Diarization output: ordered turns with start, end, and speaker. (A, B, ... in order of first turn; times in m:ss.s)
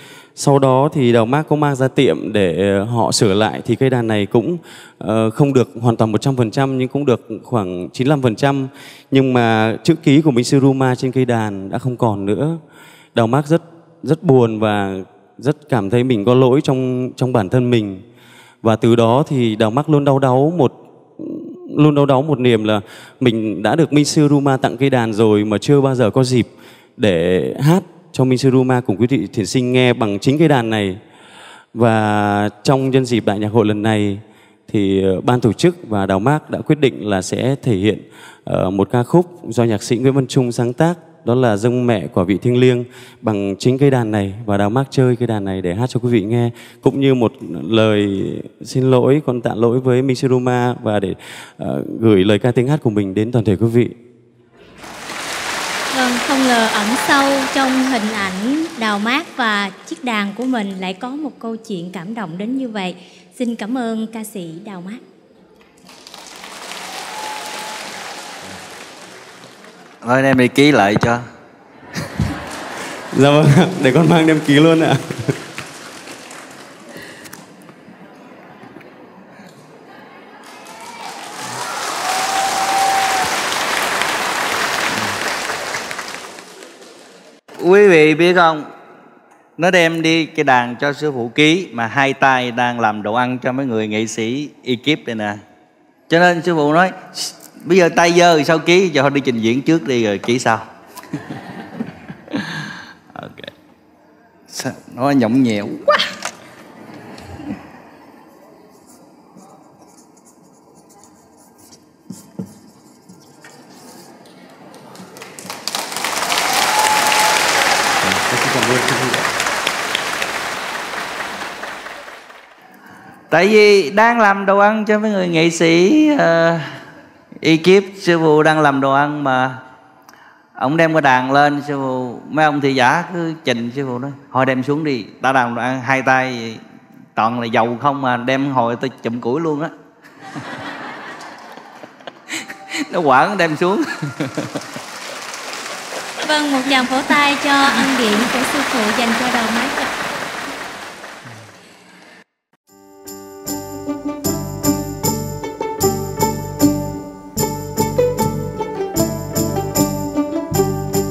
0:00.4-0:12.6 A
0:13.1-0:18.0 A
0:18.6-0:31.0 A
0:31.7-0:53.9 A
0:55.9-1:05.0 B
1:10.0-1:11.2 C
1:13.1-1:15.3 A
1:27.6-1:28.7 C
1:29.6-1:35.4 C
1:36.1-1:40.7 C
1:42.3-1:43.5 C
1:44.5-1:46.0 C
1:58.0-1:59.3 A
2:03.3-2:06.8 C
2:07.4-2:09.6 C
2:10.6-2:16.6 C
2:17.2-2:19.7 C
2:22.3-2:24.6 C
2:26.2-2:29.9 B